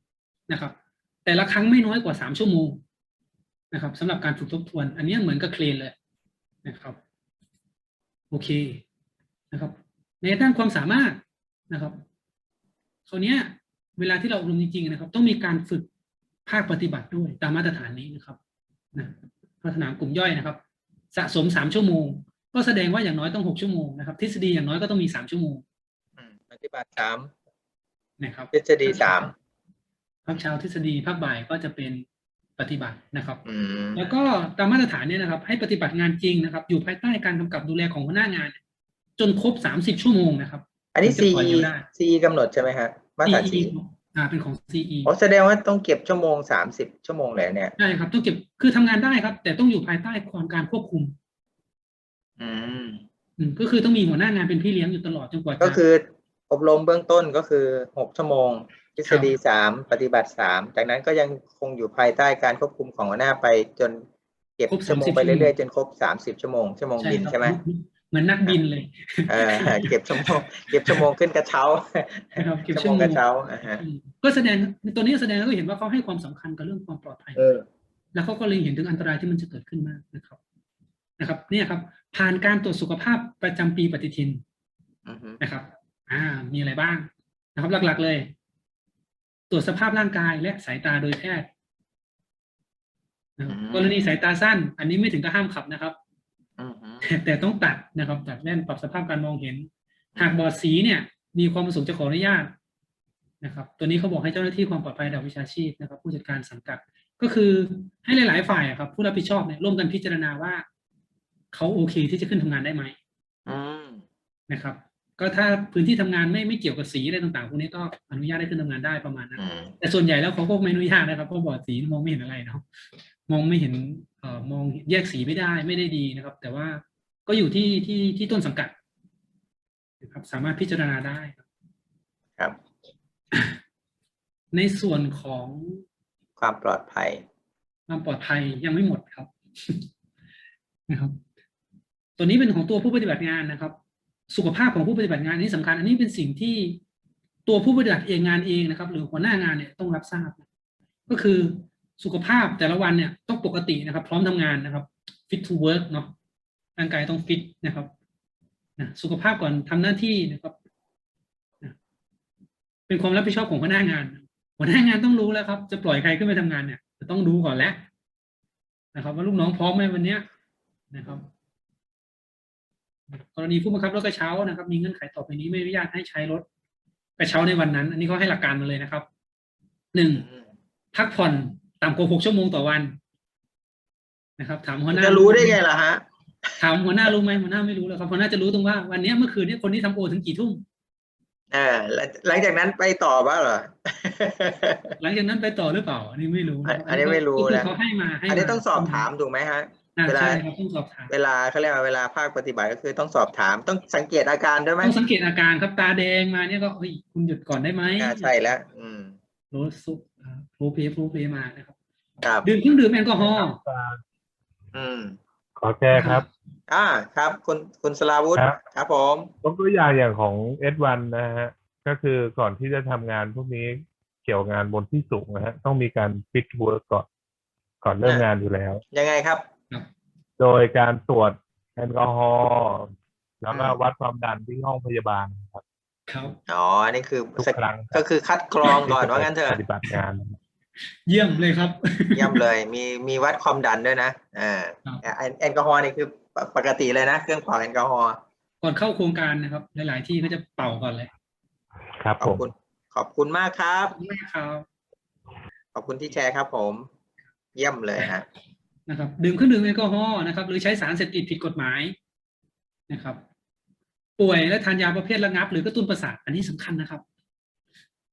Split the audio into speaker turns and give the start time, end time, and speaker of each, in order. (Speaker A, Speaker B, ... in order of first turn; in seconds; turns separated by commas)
Speaker A: 0.5-2.8, Speaker A: 3.7-6.0, Speaker A: 6.7-7.0, Speaker A: 8.3-8.8, Speaker A: 9.5-12.0, Speaker A: 13.1-15.9, Speaker A: 16.5-18.4, Speaker A: 18.9-20.6, Speaker A: 21.1-25.6, Speaker B: 26.2-27.3, Speaker A: 28.2-29.3, Speaker B: 28.5-29.3, Speaker A: 30.2-32.1, Speaker A: 32.6-33.4, Speaker B: 33.5-34.1, Speaker A: 34.0-38.6, Speaker A: 39.2-41.9, Speaker B: 41.0-43.7, Speaker A: 43.2-45.1, Speaker B: 45.0-47.8, Speaker A: 47.8-51.1, Speaker B: 52.4-53.0, Speaker A: 53.4-55.8, Speaker B: 55.6-64.0, Speaker A: 59.1-59.3, Speaker B: 64.6-67.6, Speaker A: 64.7-65.5, Speaker A: 67.0-71.0, Speaker B: 69.3-73.8, Speaker A: 72.4-77.4, Speaker B: 77.4-77.6, Speaker A: 78.1-80.4, Speaker A: 81.2-84.4, Speaker B: 85.1-85.4, Speaker A: 85.4-88.3, Speaker A: 89.5-91.5, Speaker A: 93.4-96.0, Speaker B: 93.5-94.1, Speaker B: 96.6-97.0, Speaker A: 97.0-102.5, Speaker A: 103.4-110.7, Speaker A: 111.5-113.0, Speaker B: 113.5-114.0, Speaker A: 114.5-122.6, Speaker B: 119.4-119.7, Speaker A: 123.3-128.7, Speaker A: 130.0-131.4, Speaker A: 134.5-135.8, Speaker B: 136.4-137.2, Speaker A: 137.9-139.9, Speaker A: 140.9-141.2, Speaker A: 142.2-143.8, Speaker A: 144.3-146.8, Speaker A: 147.5-150.4, Speaker A: 151.1-156.1, Speaker A: 156.8-157.9, Speaker A: 158.8-160.6, Speaker A: 162.9-167.9, Speaker A: 168.9-170.2, Speaker A: 170.9-171.3, Speaker A: 173.1-176.4, Speaker A: 177.2-179.1, Speaker A: 179.9-180.2, Speaker A: 180.9-183.0, Speaker A: 184.4-185.6, Speaker B: 184.9-186.0, Speaker A: 186.6-190.6, Speaker B: 191.5-195.0, Speaker A: 195.0-199.1, Speaker B: 196.7-197.7, Speaker B: 198.3-200.4, Speaker A: 200.0-201.1, Speaker B: 201.1-205.0, Speaker A: 204.8-208.3, Speaker B: 208.0-209.2, Speaker A: 209.5-211.7, Speaker B: 212.2-212.5, Speaker A: 212.4-213.6, Speaker C: 213.4-214.0, Speaker B: 214.7-215.2, Speaker C: 215.6-216.2, Speaker A: 215.9-216.2, Speaker B: 216.7-219.3, Speaker C: 219.4-227.1, Speaker C: 227.8-228.8, Speaker B: 228.9-229.4, Speaker C: 230.4-232.9, Speaker C: 233.4-235.6, Speaker B: 233.5-233.8, Speaker A: 236.1-236.4, Speaker B: 236.5-239.6, Speaker C: 237.4-238.0, Speaker C: 238.8-240.4, Speaker A: 241.1-242.4, Speaker B: 242.2-248.2, Speaker A: 248.6-251.1, Speaker C: 252.0-252.4, Speaker B: 252.2-254.0, Speaker A: 253.9-254.7, Speaker B: 255.8-256.9, Speaker B: 257.6-258.2, Speaker A: 258.9-261.9, Speaker A: 262.9-263.2, Speaker A: 264.2-267.0